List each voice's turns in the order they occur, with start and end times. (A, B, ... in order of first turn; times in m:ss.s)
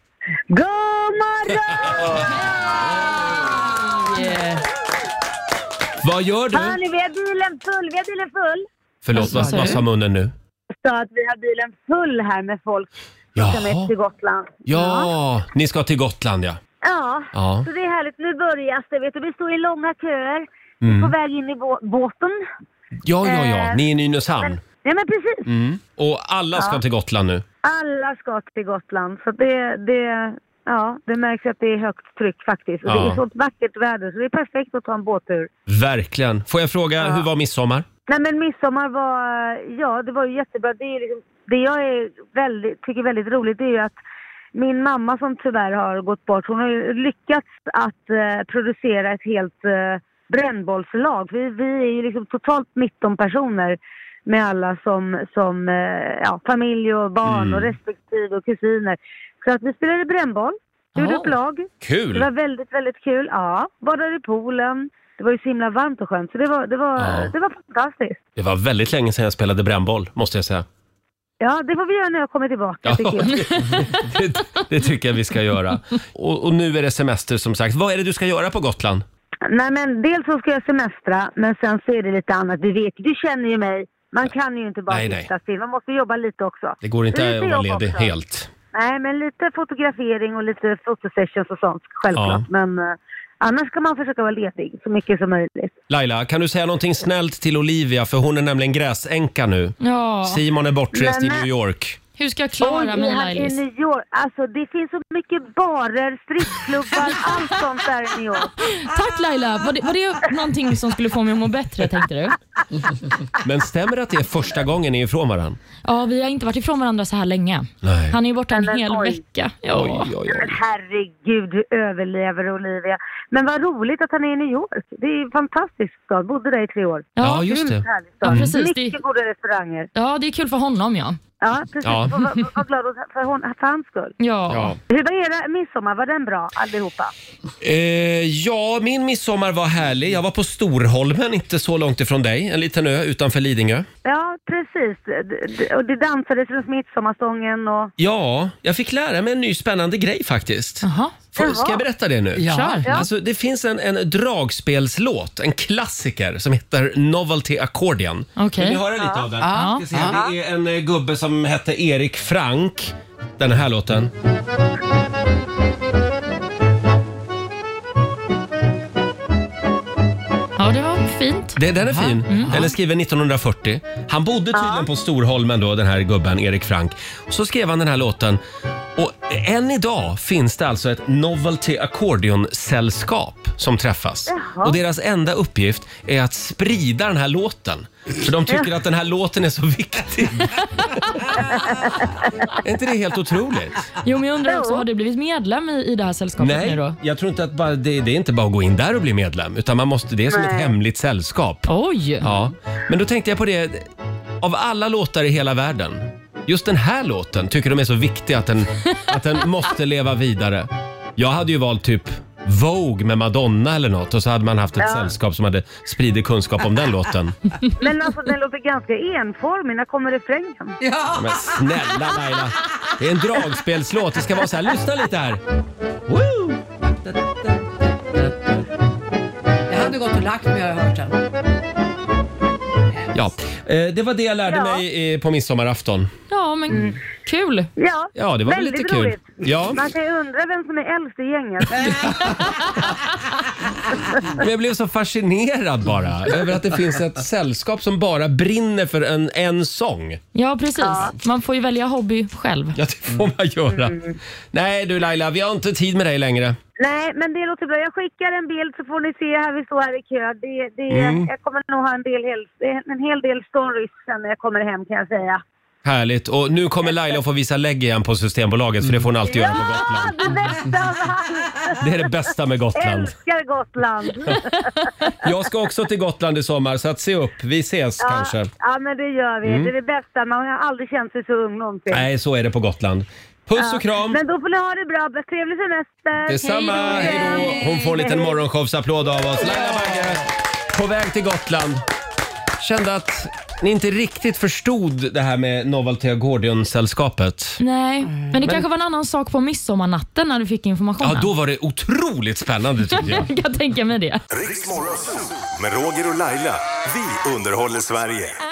0:00.5-0:02.3 A
0:04.0-0:04.6 B
0:06.0-0:06.8 C
0:06.5-0:08.7 A
0:09.0-0:10.3 C
0:09.2-0:09.7 B
0:09.2-0:09.8 D
0:10.8-0:15.1 A
0:13.4-0:13.9 C
0:14.7-0:16.6 C
0:16.8-0:22.4 A
0:17.3-0:17.7 C
0:20.8-0:21.1 C
0:23.0-0:24.6 C
0:23.2-0:23.8 A
0:24.4-0:25.5 A
0:25.5-0:27.4 C
0:26.6-0:26.8 A
0:27.6-0:35.5 A
0:32.9-0:33.2 C
0:35.7-0:37.9 C
0:38.1-0:44.0 A
0:44.5-1:08.2 A
0:57.2-0:57.8 C
1:01.0-1:01.4 B
1:01.8-1:02.3 C
1:07.0-1:07.3 C
1:08.4-1:10.7 C
1:11.4-1:13.7 A
1:12.8-1:19.0 C
1:19.5-1:28.1 A
1:24.9-1:25.3 C
1:26.8-1:28.5 C
1:28.7-1:35.7 A
1:32.1-1:32.4 C
1:35.9-1:42.0 C
1:39.8-1:40.4 B
1:40.9-1:41.5 A
1:42.2-1:43.6 B
1:42.6-1:48.6 A
1:48.6-1:52.4 B
1:53.4-1:55.6 C
1:55.8-2:00.1 B
1:57.8-1:58.2 C
1:58.5-1:59.2 A
1:59.7-2:00.6 C
2:00.3-2:09.9 A
2:07.2-2:07.5 B
2:07.2-2:08.5 C
2:08.2-2:09.0 B
2:10.0-2:11.2 B
2:11.4-2:14.2 A
2:11.8-2:12.2 C
2:14.2-2:14.8 B
2:14.5-2:14.8 C
2:14.9-2:17.1 A
2:17.6-2:23.9 C
2:24.0-2:27.9 A
2:28.0-2:44.1 C
2:30.8-2:31.2 B
2:31.4-2:31.8 A
2:32.4-2:32.8 D
2:32.4-2:32.9 B
2:38.4-2:38.8 B
2:39.0-2:39.2 A
2:39.4-2:40.2 D
2:39.5-2:39.8 B
2:50.6-2:51.6 B
2:51.6-2:58.4 C
2:51.8-2:52.7 D
2:52.3-2:52.6 B
2:54.5-2:54.9 A
2:59.0-3:11.3 C
3:04.3-3:04.8 A
3:11.4-3:12.1 A
3:12.6-3:13.8 C
3:14.0-3:17.0 B
3:14.5-3:14.8 A
3:16.4-3:21.7 C
3:20.3-3:20.7 A
3:21.7-3:22.3 B
3:22.2-3:23.9 C
3:24.4-3:37.4 C
3:34.8-3:35.1 A
3:37.8-3:40.8 A
3:40.8-3:42.1 D
3:41.1-3:45.4 C
3:46.3-3:48.6 D
3:49.7-3:51.2 D
3:53.1-3:56.1 C
3:54.5-3:54.8 A
3:56.3-3:57.7 B
3:57.8-4:02.1 A
3:58.2-3:59.8 C
4:04.4-4:10.2 C
4:10.4-4:12.8 B
4:10.8-4:11.1 A
4:12.8-4:14.0 C
4:13.7-4:14.2 A
4:14.5-4:16.6 C
4:16.8-4:25.4 A
4:20.9-4:21.3 C
4:25.8-4:30.3 C
4:29.3-4:32.1 A
4:31.8-4:33.2 C
4:32.8-4:34.9 A
4:35.2-4:38.5 C
4:38.0-4:42.1 A
4:39.4-4:39.7 C
4:41.9-4:44.2 C
4:43.6-4:48.4 A
4:46.3-4:51.8 C
4:46.7-4:47.0 B
4:52.6-4:57.6 C
4:57.6-5:01.3 B
5:01.0-5:03.3 C
5:02.9-5:04.2 B
5:04.3-5:08.4 E